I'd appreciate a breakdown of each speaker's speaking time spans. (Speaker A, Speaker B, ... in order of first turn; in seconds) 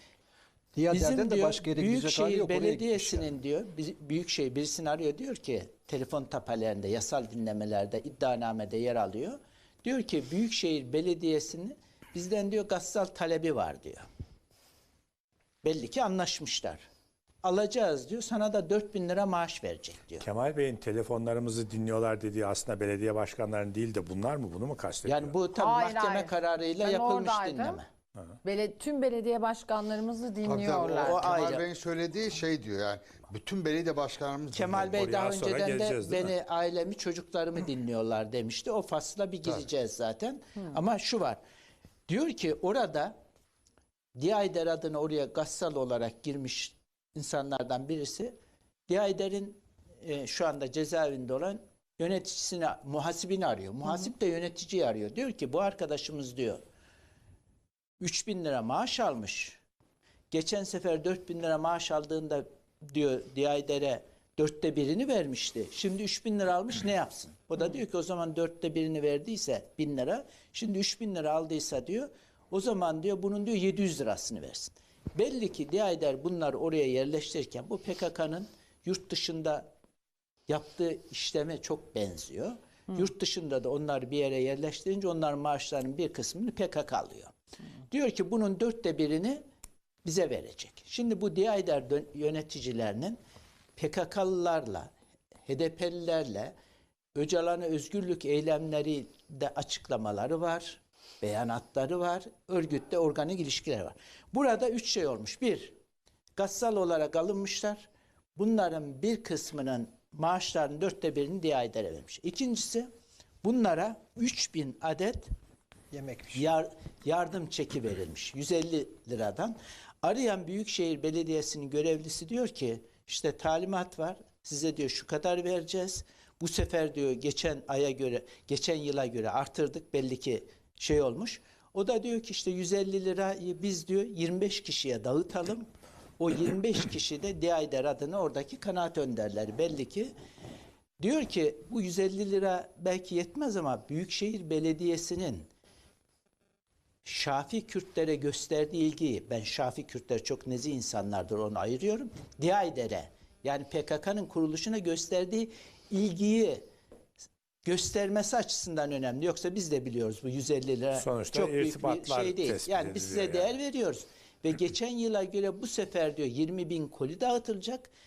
Speaker A: 0.8-3.3, 115.9-116.4
Speaker B: 0.9-14.1, 15.6-16.8, 17.4-20.3, 25.1-27.9, 30.9-31.7, 34.5-41.4, 42.1-43.1, 44.2-48.3, 48.9-56.6, 58.0-59.6, 60.3-79.7, 80.5-87.3, 87.9-89.4, 90.0-93.2, 93.8-94.9, 95.5-96.5, 97.2-105.7, 106.4-112.9, 113.4-115.3, 116.3-140.1, 141.0-145.5, 147.0-156.6, 157.7-167.9
Speaker C: 20.2-25.4, 34.9-36.3, 160.9-163.5
Speaker D: 25.5-27.8, 28.4-31.2
Speaker E: 30.4-35.0